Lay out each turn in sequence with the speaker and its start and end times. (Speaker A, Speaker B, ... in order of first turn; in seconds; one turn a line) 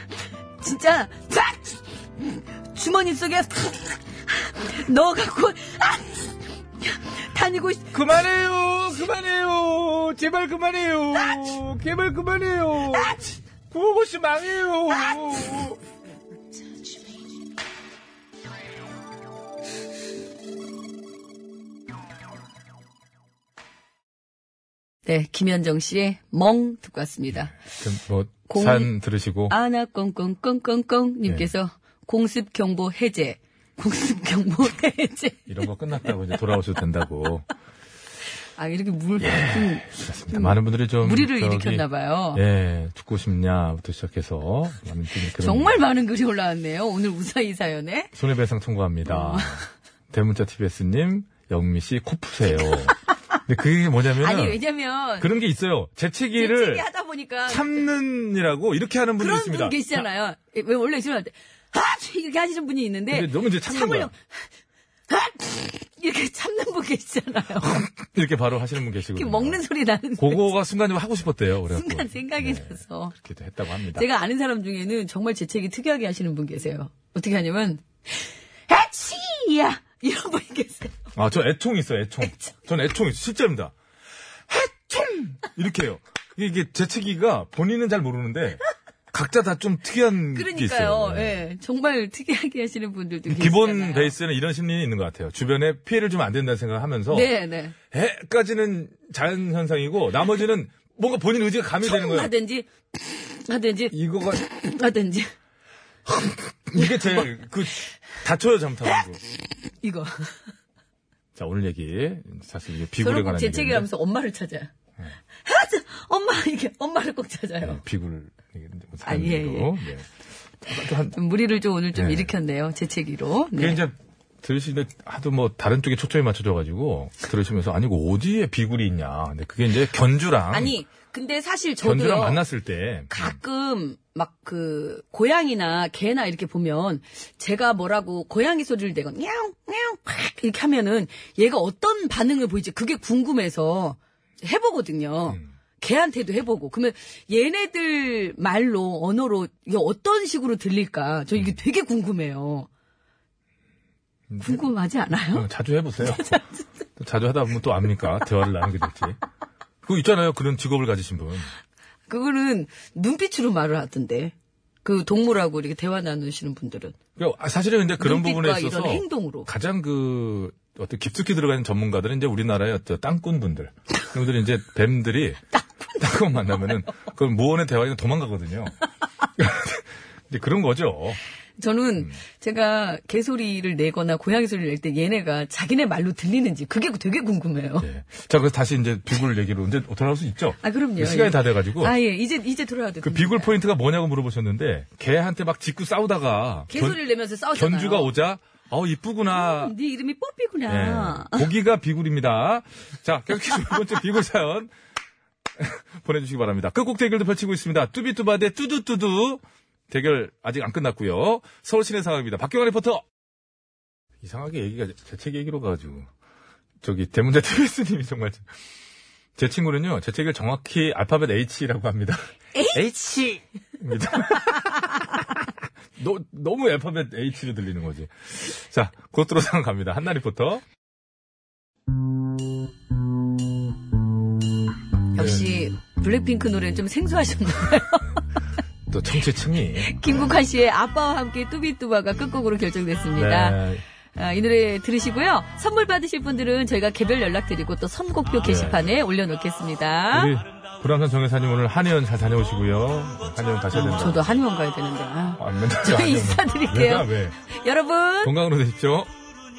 Speaker A: 0.6-1.8
Speaker A: 2.7-8.0
Speaker B: 7.9-15.8
Speaker A: 12.9-13.2
Speaker A: 25.1-27.5
Speaker C: 27.7-29.6
Speaker A: 28.5-28.9
Speaker A: 29.5-35.5
Speaker C: 35.5-37.5
Speaker A: 38.6-42.4
Speaker C: 39.2-45.8
Speaker A: 45.4-48.1
Speaker C: 48.1-54.6
Speaker A: 49.1-49.6
Speaker A: 52.5-52.9
Speaker A: 54.2-55.3
Speaker C: 55.2-56.9
Speaker A: 56.4-57.8
Speaker C: 57.5-60.0
Speaker A: 59.2-64.2
Speaker C: 63.1-64.1
Speaker A: 65.1-67.8
Speaker C: 67.6-69.6
Speaker A: 69.1-70.5
Speaker C: 70.2-74.1
Speaker A: 71.7-73.1
Speaker A: 74.0-81.0
Speaker C: 81.2-83.7
Speaker A: 82.2-82.5
Speaker C: 84.5-91.4
Speaker A: 90.3-94.1
Speaker C: 93.3-97.3
Speaker A: 97.1-97.8
Speaker C: 97.9-102.3
Speaker A: 101.8-105.3
Speaker C: 103.9-104.4
Speaker C: 106.1-109.2
Speaker A: 106.8-107.3
Speaker A: 109.8-110.4
Speaker C: 111.3-113.9
Speaker A: 113.0-114.7
Speaker A: 115.5-117.8
Speaker C: 117.6-120.1
Speaker A: 119.0-119.8
Speaker C: 120.6-121.2
Speaker A: 121.1-123.8
Speaker C: 122.0-122.3
Speaker C: 123.6-130.8
Speaker A: 130.5-132.4
Speaker C: 131.8-133.3
Speaker A: 133.1-152.7
Speaker C: 154.3-154.7
Speaker A: 154.4-155.5
Speaker C: 155.3-156.4
Speaker A: 156.0-156.6
Speaker C: 157.0-159.2
Speaker C: 159.8-161.5
Speaker A: 162.1-166.9
Speaker C: 167.2-175.4
Speaker A: 168.0-169.5
Speaker C: 176.0-178.8
Speaker C: 179.4-181.2
Speaker A: 181.6-187.9
Speaker C: 187.8-191.9
Speaker A: 190.6-193.5
Speaker C: 193.0-197.0
Speaker A: 196.7-198.1
Speaker C: 197.5-199.7
Speaker A: 199.3-201.5
Speaker C: 200.7-204.7
Speaker C: 205.6-213.0
Speaker C: 214.2-216.1
Speaker C: 216.8-218.4
Speaker C: 219.4-225.1
Speaker A: 222.6-222.9
Speaker C: 226.0-230.6
Speaker A: 235.1-238.2
Speaker C: 235.2-235.4
Speaker C: 238.9-240.2
Speaker A: 239.8-243.6
Speaker C: 243.1-243.8
Speaker A: 244.2-250.3
Speaker C: 248.4-248.9
Speaker C: 250.1-254.3
Speaker A: 253.7-258.3
Speaker C: 255.4-257.4
Speaker C: 258.2-259.1